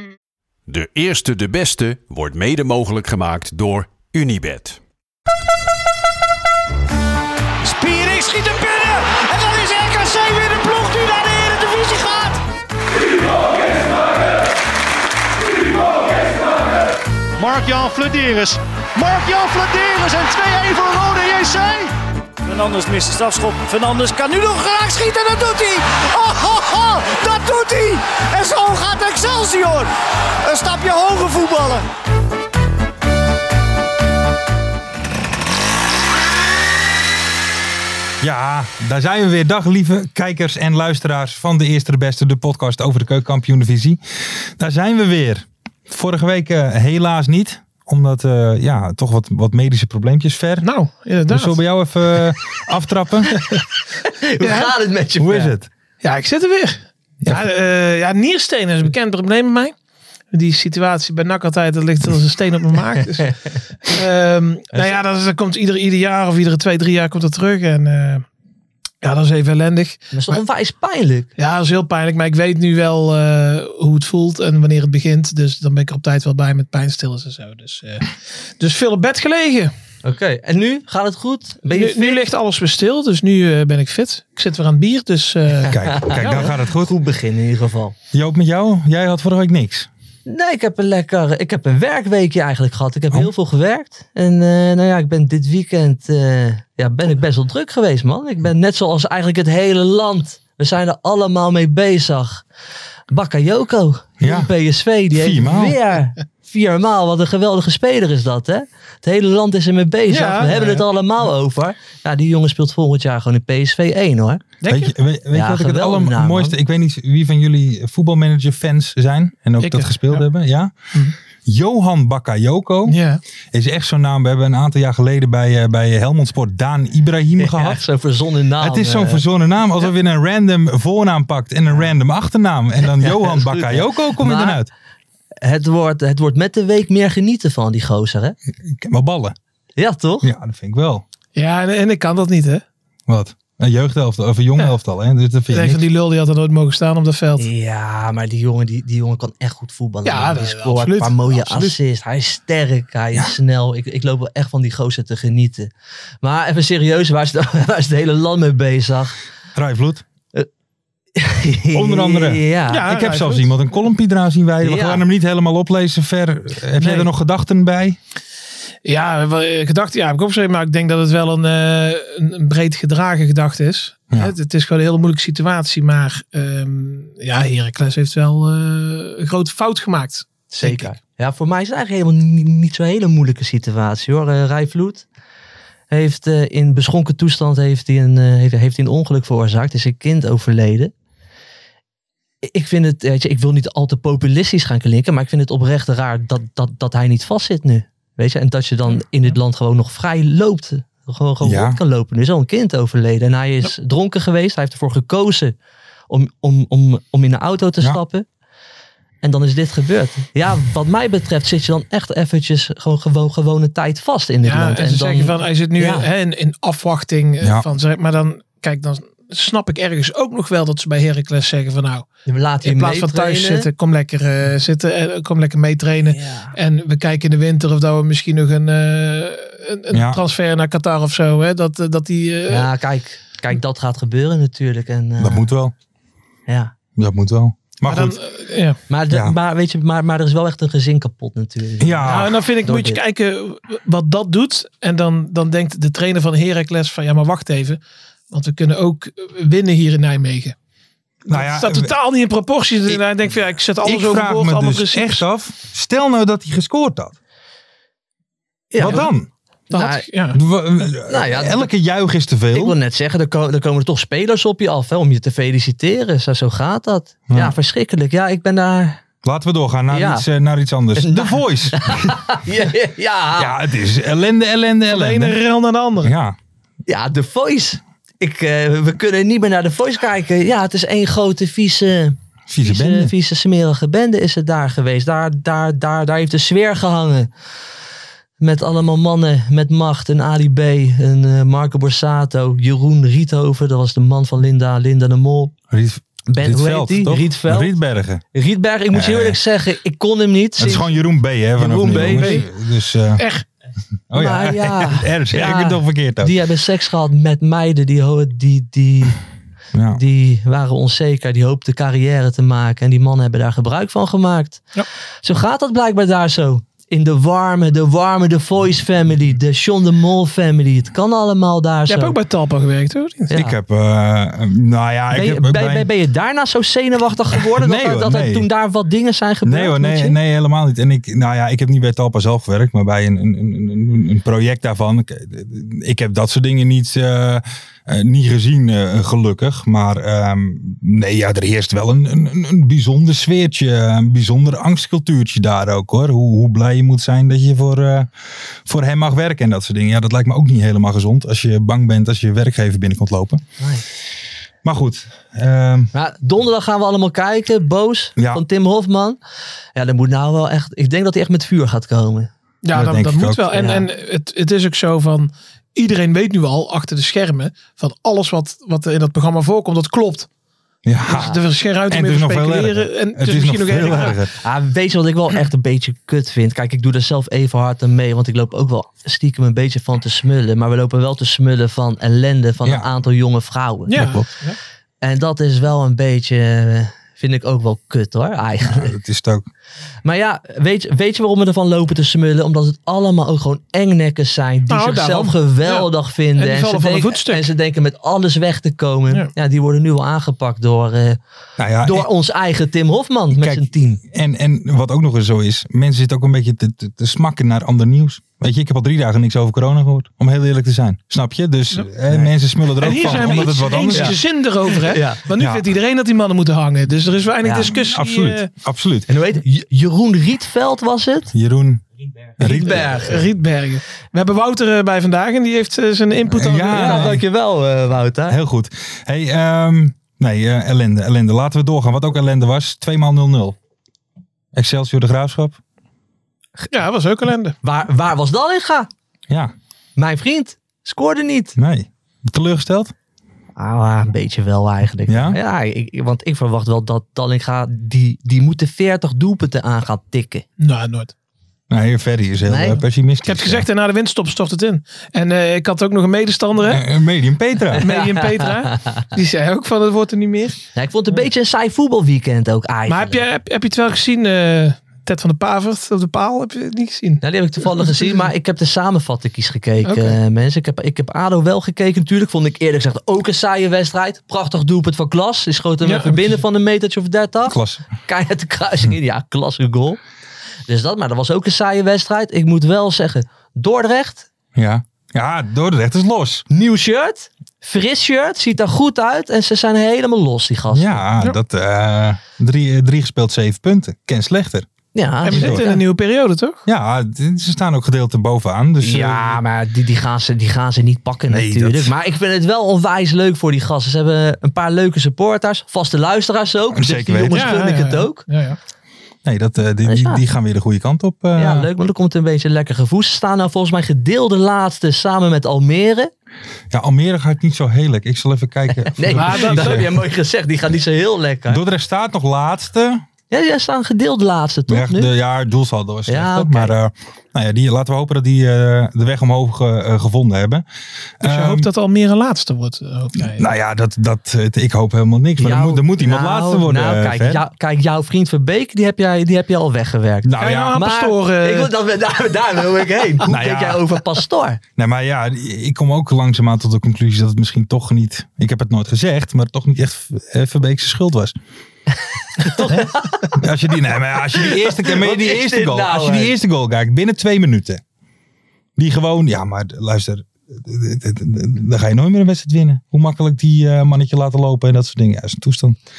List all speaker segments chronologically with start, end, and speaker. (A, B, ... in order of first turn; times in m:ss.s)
0:00.7-0:04.8 A
0:07.6-0:12.4 B
0:17.4-0:21.9 B
0:22.4-0:29.9 B
0:30.4-0:31.8 B
0:38.2-0:44.0 C
0:44.6-0:50.7 C
0:50.6-0:51.6 D
0:51.3-0:53.4 C
0:54.0-0:55.5 E
0:54.4-0:54.7 D
0:55.2-0:55.7 C
0:56.0-0:59.7 D
1:00.3-1:08.2 D
1:09.0-1:10.4 D
1:10.1-1:11.3 E
1:11.4-1:19.7 D
1:20.0-1:22.2 E
1:21.7-1:25.8 D
1:25.7-1:26.9 C
1:25.8-1:28.0 E
1:28.1-1:29.9 C
1:30.3-1:42.4 E
1:43.1-1:54.4 E
1:44.2-1:44.5 C
1:45.1-1:45.8 C
1:50.1-1:50.9 D
1:54.6-1:54.9 D
1:54.7-2:00.7 C
1:55.3-1:56.6 E
1:59.6-2:00.2 D
2:01.4-2:03.0 C
2:02.9-2:03.2 D
2:03.5-2:07.8 C
2:07.4-2:09.2 E
2:08.6-2:14.7 C
2:13.0-2:14.6 E
2:15.4-2:18.4 E
2:18.6-2:19.4 C
2:19.8-2:20.3 E
2:20.2-2:21.0 C
2:21.4-2:22.6 D
2:23.1-2:25.8 C
2:25.5-2:27.5 D
2:27.4-2:35.7 E
2:30.0-2:31.8 D
2:36.2-2:39.2 E
2:39.6-2:40.0 C
2:41.2-2:42.8 E
2:41.7-2:48.0 C
2:42.7-2:43.5 D
2:44.6-2:45.0 E
2:46.8-2:47.1 D
2:48.8-3:00.9 D
3:00.5-3:05.1 E
3:05.9-3:10.9 E
3:12.4-3:25.6 E
3:21.4-3:21.8 C
3:26.1-3:28.2 E
3:29.2-3:36.1 E
3:34.4-3:42.1 D
3:42.3-3:43.7 E
3:42.6-3:52.7 D
3:46.0-3:46.5 E
3:49.9-3:50.2 C
3:52.5-3:55.5 E
3:55.2-3:55.7 C
3:56.5-3:56.7 E
3:57.0-3:58.2 C
3:57.9-3:58.8 D
3:58.9-4:03.0 E
3:59.1-3:59.4 C
4:01.8-4:02.4 C
4:02.0-4:07.8 D
4:08.3-4:10.6 D
4:11.3-4:15.2 D
4:11.3-4:11.9 C
4:13.8-4:17.2 C
4:18.7-4:19.1 E
4:18.8-4:19.3 C
4:19.7-4:20.0 E
4:19.7-4:20.4 D
4:20.3-4:22.8 C
4:21.1-4:21.7 E
4:22.5-4:29.0 E
4:27.3-4:27.6 C
4:29.2-4:32.3 C
4:29.9-4:30.2 E
4:31.0-4:33.6 E
4:33.4-4:35.4 C
4:34.9-4:36.1 D
4:36.0-4:36.4 C
4:36.9-4:47.3 E
4:42.5-4:43.1 C
4:48.4-4:55.5 E
4:55.7-4:58.2 C
4:56.3-4:57.7 E
4:58.3-5:00.9 E
4:58.9-4:59.4 C
5:00.6-5:03.2 C
5:01.6-5:02.4 E
5:02.2-5:02.5 D
5:03.2-5:03.4 D
5:04.1-5:06.3 C
5:04.2-5:09.2 E
5:09.7-5:10.0 C
5:10.0-5:14.7 E
5:15.2-5:22.2 E
5:21.9-5:23.3 D
5:23.3-5:25.9 C
5:25.1-5:30.2 E
5:27.6-5:28.5 C
5:29.4-5:48.1 C
5:48.6-5:53.4 C
5:53.6-5:53.8 E
5:54.6-5:55.9 C
5:55.9-5:59.2 E
5:58.2-5:58.4 C
5:59.8-6:02.3 E
6:02.6-6:10.3 D
6:02.7-6:03.5 C
6:03.5-6:03.9 E
6:10.8-6:11.3 C
6:11.1-6:14.2 D
6:11.1-6:11.4 E
6:11.9-6:14.4 C
6:14.3-6:24.1 E
6:22.6-6:22.9 C
6:23.9-6:24.6 D
6:24.0-6:24.3 C
6:25.0-6:28.9 E
6:28.6-6:29.5 C
6:30.0-6:41.2 E
6:34.7-6:37.5 D
6:41.6-6:42.1 C
6:41.8-6:44.0 E
6:43.3-6:54.2 C
6:52.8-6:58.5 D
6:53.0-6:55.2 E
6:55.4-6:55.6 C
6:57.4-6:57.7 E
6:57.7-6:59.1 C
6:59.1-7:01.3 E
7:01.3-7:01.8 C
7:02.4-7:03.2 E
7:02.4-7:02.9 C
7:02.4-7:07.2 D
7:06.3-7:07.2 C
7:06.7-7:08.4 E
7:08.3-7:13.6 C
7:14.5-7:15.6 C
7:16.7-7:17.6 D
7:17.6-7:18.9 E
7:20.0-7:21.6 E
7:21.6-7:22.9 C
7:23.6-7:30.4 E
7:25.1-7:25.4 C
7:30.6-7:31.1 D
7:31.7-7:33.7 C
7:32.5-7:32.8 E
7:33.2-7:36.9 D
7:36.7-7:38.0 C
7:37.8-7:40.6 D
7:37.9-7:39.0 E
7:40.8-7:43.2 E
7:42.9-7:48.2 D
7:47.2-8:00.0 E
7:49.8-7:50.2 D
7:55.8-7:56.3 D
7:57.5-7:57.8 C
8:00.7-8:04.3 E
8:04.6-8:06.4 C
8:06.5-8:11.0 E
8:10.7-8:14.7 C
8:14.9-8:15.7 E
8:15.2-8:16.6 D
8:15.3-8:15.8 C
8:16.7-8:19.4 C
8:18.8-8:28.2 E
8:21.3-8:21.9 C
8:26.7-8:27.5 C
8:27.3-8:28.6 D
8:29.2-8:31.7 C
8:29.9-8:30.2 E
8:31.4-8:36.1 E
8:36.7-8:39.9 C
8:38.9-8:41.6 E
8:39.2-8:39.8 D
8:41.5-8:43.0 C
8:43.3-8:45.1 E
8:44.7-8:50.7 C
8:46.1-8:46.7 E
8:51.2-8:51.7 C
8:51.2-8:53.5 D
8:53.2-8:57.4 C
8:55.4-9:04.6 E
9:00.2-9:00.8 C
9:00.4-9:01.7 D
9:03.3-9:03.8 C
9:04.8-9:11.4 C
9:12.4-9:13.4 E
9:12.6-9:17.8 C
9:14.3-9:16.3 E
9:18.8-9:25.8 C